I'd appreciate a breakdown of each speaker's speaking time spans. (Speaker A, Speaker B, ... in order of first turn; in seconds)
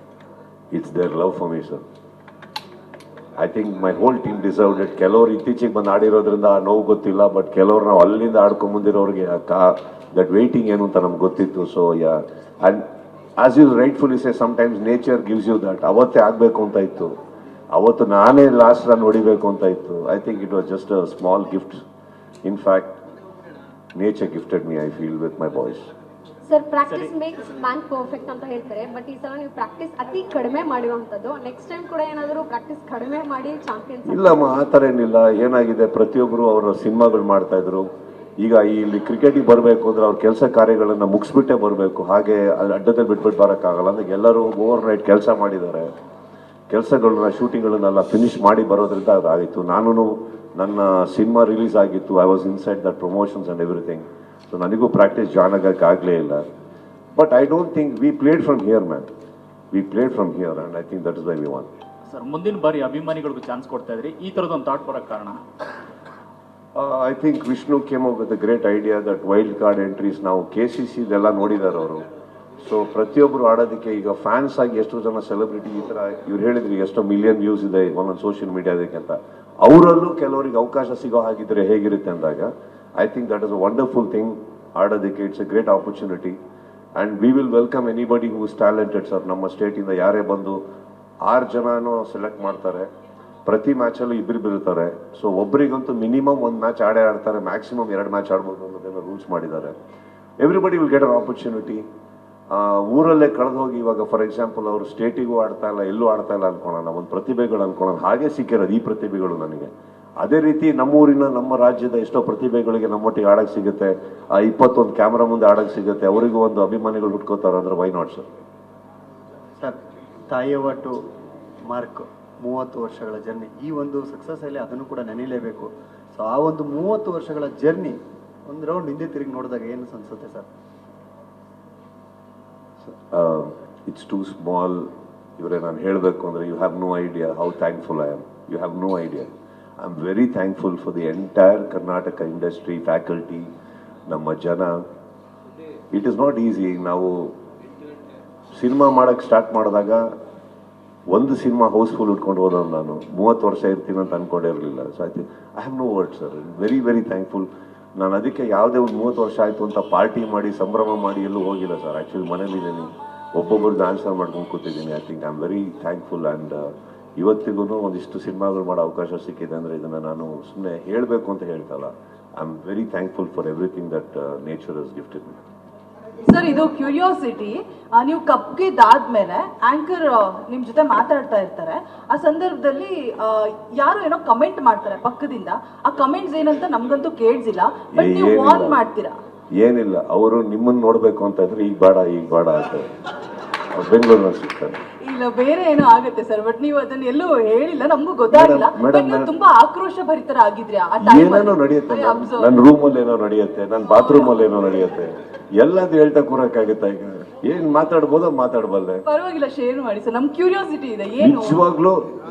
Speaker A: 0.7-1.8, 3.4-12.8, 13.4-17.1, 17.7-21.8, 22.4-23.0, 23.9-25.9, 34.0-37.9, 38.4-45.9, 46.7-56.4, 57.1-59.1, 59.7-61.7, 66.7-72.1, 72.6-86.4, 87.0-90.6, 91.2-92.9, 93.5-99.8, 100.4-101.8, 102.5-118.2, 132.8-143.5, 144.1-144.8, 145.9-147.3, 148.5-150.0, 151.1-175.4, 187.9-188.8, 189.6-192.9, 193.7-194.8, 198.3-199.3, 201.0-209.0, 211.2-212.0
Speaker B: 26.5-34.5
Speaker C: 62.1-65.4
Speaker D: 120.3-121.0, 121.7-130.5
Speaker E: 176.3-189.2, 195.0-202.5, 203.9-204.3, 209.1-211.6